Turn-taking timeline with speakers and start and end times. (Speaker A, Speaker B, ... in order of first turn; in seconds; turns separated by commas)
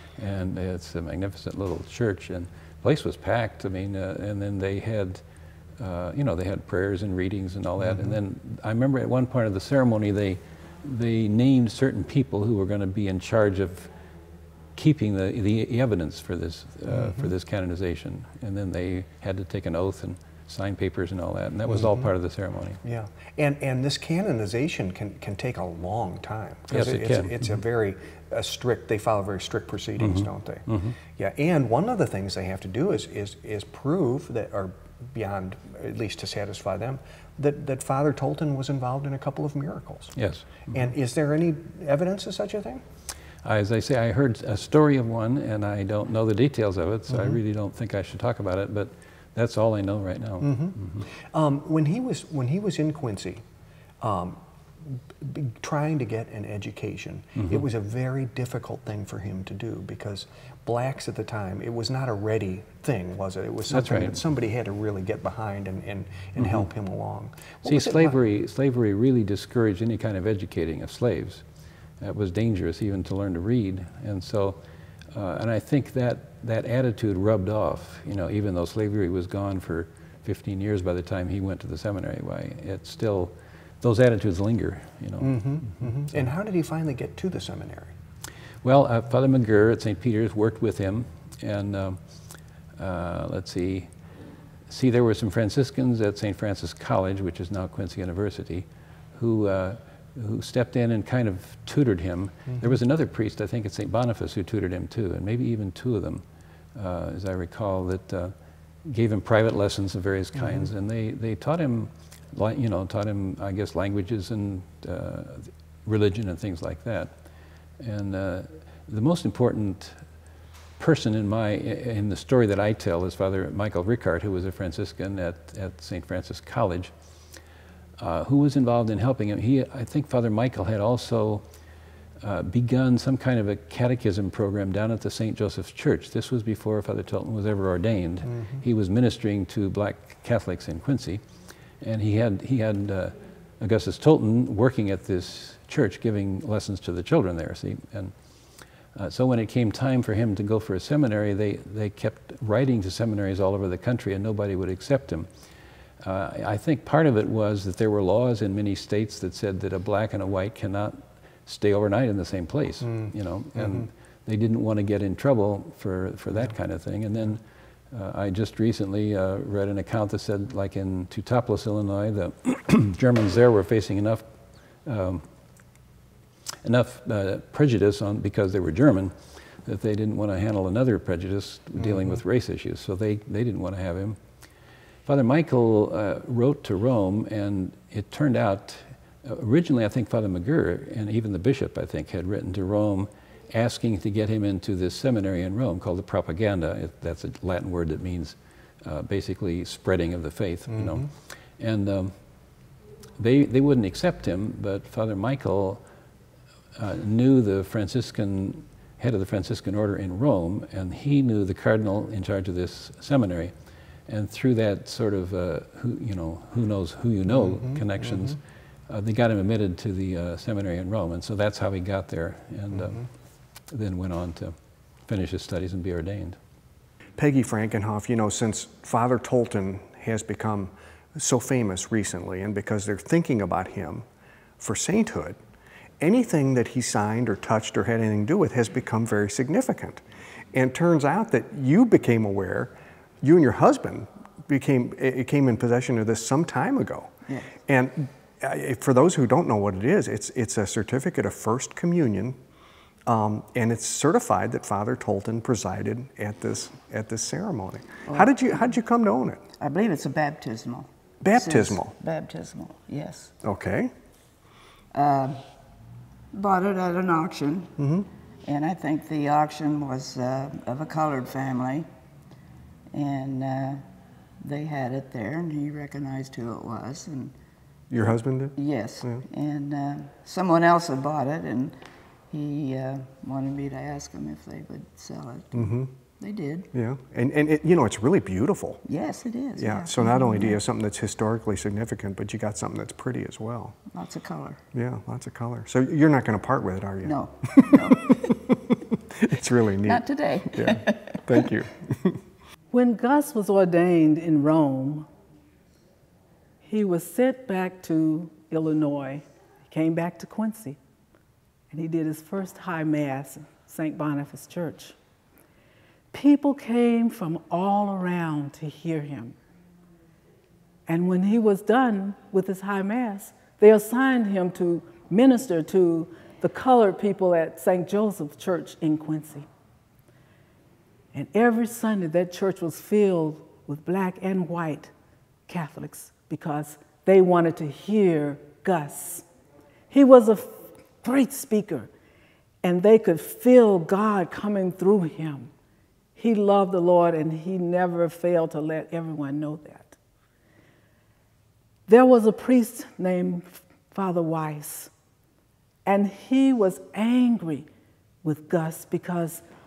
Speaker A: 0.2-5.2, Speaker A: 5.8-13.9, Speaker B: 7.8-8.2, Speaker A: 14.8-22.8, Speaker B: 16.9-17.3, Speaker B: 21.7-22.1, Speaker B: 22.8-40.1, Speaker A: 26.7-27.6, Speaker A: 30.0-31.0, Speaker A: 40.2-40.9, Speaker B: 40.7-42.8, Speaker A: 43.4-51.1, Speaker B: 47.1-47.4, Speaker B: 50.4-53.4, Speaker B: 54.0-68.2, Speaker A: 57.4-57.6, Speaker A: 63.7-64.2, Speaker A: 66.4-66.7, Speaker A: 67.6-71.4, Speaker A: 72.0-74.6, Speaker A: 75.1-86.3, Speaker B: 85.2-87.9, Speaker A: 88.6-92.0, Speaker A: 92.8-93.9, Speaker A: 94.7-106.2, Speaker A: 106.8-117.2, Speaker B: 110.3-110.7, Speaker A: 117.8-120.1, Speaker A: 120.8-126.9, Speaker A: 128.0-131.4, Speaker A: 132.2-141.2, Speaker B: 138.2-138.6, Speaker A: 141.8-148.1, Speaker A: 148.9-155.3, Speaker A: 156.0-174.2, Speaker B: 162.8-163.9, Speaker A: 174.8-175.2, Speaker A: 176.6-184.2, Speaker B: 181.8-182.2, Speaker A: 185.0-202.2, Speaker B: 200.7-201.1, Speaker A: 203.2-205.8, Speaker A: 206.8-213.5, Speaker A: 214.1-223.1, Speaker B: 217.3-218.4, Speaker B: 222.7-223.1, Speaker A: 223.7-224.5, Speaker A: 225.1-226.4, Speaker B: 227.2-234.1, Speaker B: 234.6-235.4, Speaker B: 236.0-252.4, Speaker C: 247.2-247.5, Speaker B: 253.1-259.4, Speaker C: 258.1-258.6, Speaker C: 259.6-263.3, Speaker B: 261.2-262.0, Speaker B: 263.4-263.9, Speaker C: 264.9-265.5, Speaker C: 266.3-267.7, Speaker B: 267.8-268.1, Speaker C: 268.4-271.9, Speaker C: 272.9-273.9, Speaker C: 274.4-277.3, Speaker B: 277.9-279.2, Speaker C: 278.5-281.8, Speaker C: 282.3-286.7, Speaker B: 285.5-285.9, Speaker B: 286.7-288.8, Speaker C: 288.8-290.6, Speaker B: 289.6-293.8, Speaker C: 293.9-294.6, Speaker B: 294.7-302.2, Speaker C: 297.0-298.3, Speaker C: 299.8-301.5, Speaker D: 302.7-305.1, Speaker D: 306.6-310.8, Speaker D: 311.7-315.0, Speaker D: 316.1-319.3, Speaker D: 320.9-329.5, Speaker D: 331.1-334.9, Speaker D: 335.5-339.2, Speaker D: 339.9-341.9, Speaker D: 342.6-345.5, Speaker D: 346.2-350.0, Speaker D: 351.9-354.9, Speaker D: 355.9-357.7, Speaker D: 358.2-359.4